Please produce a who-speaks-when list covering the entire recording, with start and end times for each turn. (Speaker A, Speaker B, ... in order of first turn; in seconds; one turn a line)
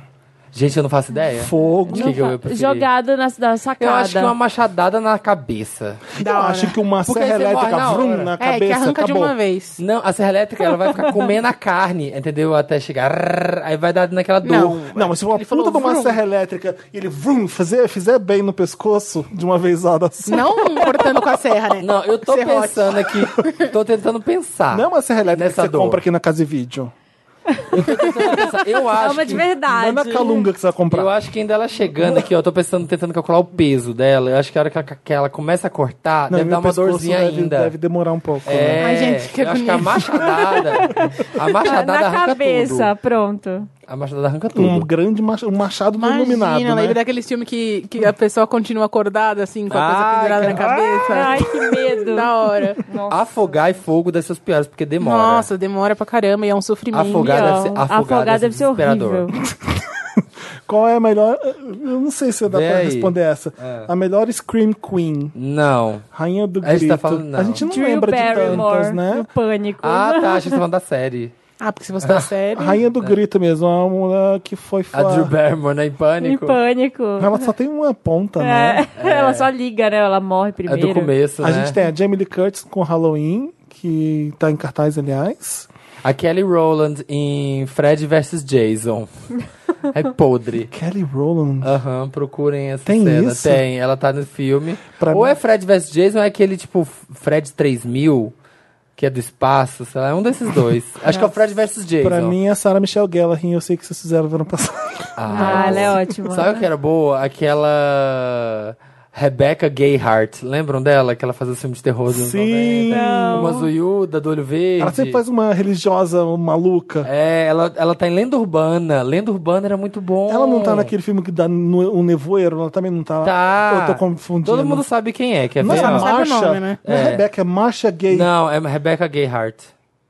Speaker A: 0.5-2.9
Speaker B: 1.3-2.2
Speaker C: 1.9-4.3
Speaker A: 3.8-6.1
Speaker B: 6.1-9.3
Speaker D: 6.2-6.8
Speaker A: 7.1-8.3
Speaker D: 8.4-9.8
Speaker A: 9.8-14.9
Speaker D: 14.4-16.2
Speaker B: 14.9-20.9
Speaker D: 20.3-23.6
Speaker A: 21.8-26.0
Speaker B: 24.7-26.9
Speaker C: 27.6-30.5
Speaker A: 27.7-29.5
Speaker B: 29.7-31.1
Speaker A: 30.9-37.8
Speaker B: 36.3-38.9
Speaker A: 38.5-42.9
Speaker D: 38.8-40.9
Speaker C: 41.4-43.7
Speaker A: 43.9-44.9
Speaker B: 44.5-47.0
Speaker D: 46.0-51.5
Speaker A: 49.7-50.9
Speaker C: 51.1-52.3
Speaker D: 52.0-52.8
Speaker C: 52.9-53.5
Speaker A: 53.1-55.5
Speaker D: 55.0-57.6
Speaker A: 56.9-59.3
Speaker C: 57.1-59.4
Speaker B: 59.5-65.3
Speaker A: 62.5-63.9
Speaker A: 65.3-66.1
Speaker B: 66.1-69.3
Speaker A: 66.6-67.7
Speaker C: 67.6-70.6
Speaker A: 68.3-68.7
Speaker A: 69.8-71.3
Speaker D: 71.6-72.8
Speaker A: 72.0-72.3
Speaker B: 72.5-75.3
Speaker A: 74.9-76.6
Speaker C: 76.2-77.5
Speaker B: 77.2-78.8
Speaker C: 78.4-81.1
Speaker A: 79.0-79.5
Speaker A: 80.7-81.8
Speaker B: 81.4-85.7
Speaker A: 86.0-89.1
Speaker A: 89.9-90.7
Speaker B: 90.7-91.7
Speaker A: 91.6-98.3
Speaker B: 92.9-93.6
Speaker B: 95.0-95.4
Speaker A: 99.0-102.3
Speaker B: 102.0-106.0
Speaker A: 105.2-115.2
Speaker C: 105.3-106.7
Speaker B: 112.1-113.6
Speaker C: 112.9-113.7
Speaker B: 114.8-117.1
Speaker A: 117.0-120.9
Speaker B: 120.3-124.8
Speaker A: 123.2-126.1
Speaker B: 125.6-128.3
Speaker D: 125.7-126.8
Speaker A: 126.8-127.2
Speaker A: 128.1-129.7